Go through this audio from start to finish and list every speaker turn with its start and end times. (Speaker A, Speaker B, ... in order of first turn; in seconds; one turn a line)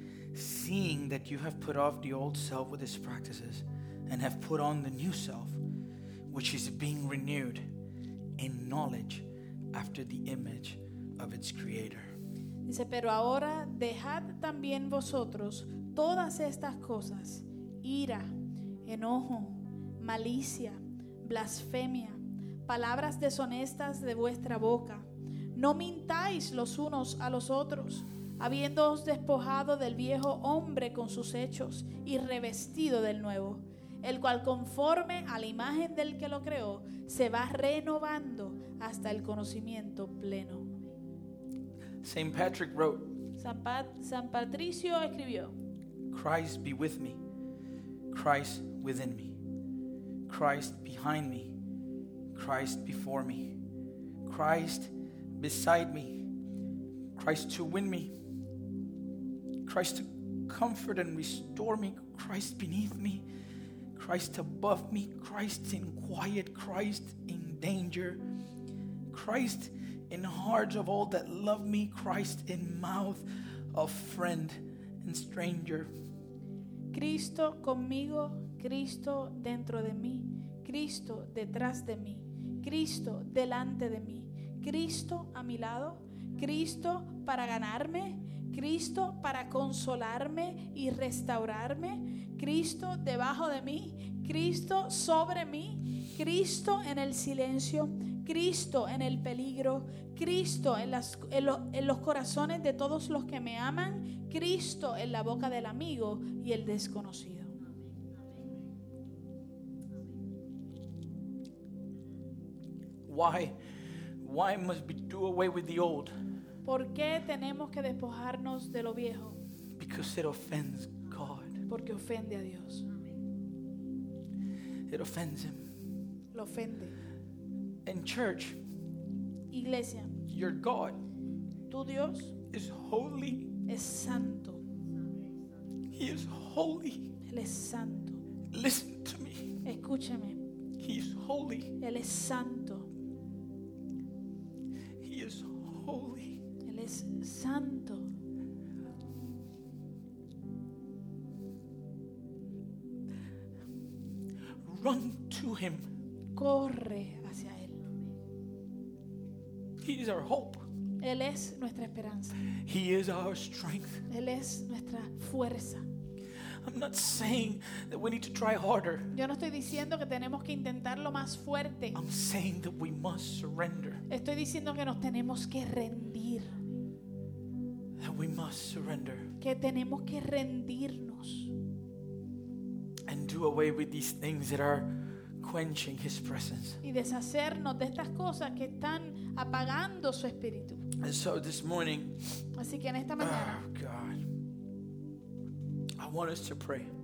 Speaker A: 0.3-5.6
Speaker A: 6.3-7.7
Speaker A: 8.4-12.1
Speaker B: 12.7-40.7
Speaker A: 42.0-43.2
Speaker B: 43.4-45.6
Speaker A: 46.1-47.2
Speaker A: 48.1-49.4
Speaker A: 50.3-51.5
Speaker A: 52.3-53.6
Speaker A: 54.2-56.3
Speaker A: 57.2-58.1
Speaker A: 59.6-63.3
Speaker A: 64.0-68.2
Speaker A: 69.1-75.9
Speaker B: 76.9-107.5
Speaker A: 113.1-113.6
Speaker A: 114.2-116.1
Speaker B: 116.6-119.4
Speaker A: 119.8-121.7
Speaker B: 121.7-122.9
Speaker A: 124.9-125.8
Speaker B: 126.3-127.0
Speaker A: 127.8-128.6
Speaker B: 129.5-130.2
Speaker A: 130.3-131.0
Speaker B: 131.7-132.3
Speaker A: 132.5-133.5
Speaker B: 133.7-134.6
Speaker A: 135.9-137.1
Speaker B: 137.2-138.2
Speaker A: 138.5-139.6
Speaker B: 139.6-140.4
Speaker A: 140.8-141.8
Speaker B: 141.8-142.9
Speaker A: 145.0-146.4
Speaker B: 146.6-148.1
Speaker A: 154.6-155.9
Speaker B: 156.3-157.8
Speaker A: 159.8-160.7
Speaker B: 161.0-162.4
Speaker A: 162.4-164.1
Speaker B: 164.1-165.9
Speaker A: 166.6-169.2
Speaker B: 169.1-172.0
Speaker A: 171.9-174.1
Speaker B: 174.1-176.6
Speaker A: 178.0-179.3
Speaker B: 179.4-181.5
Speaker A: 183.1-186.8
Speaker B: 186.8-190.9
Speaker A: 191.0-192.2
Speaker B: 192.6-193.6
Speaker A: 193.2-194.3
Speaker A: 196.0-196.9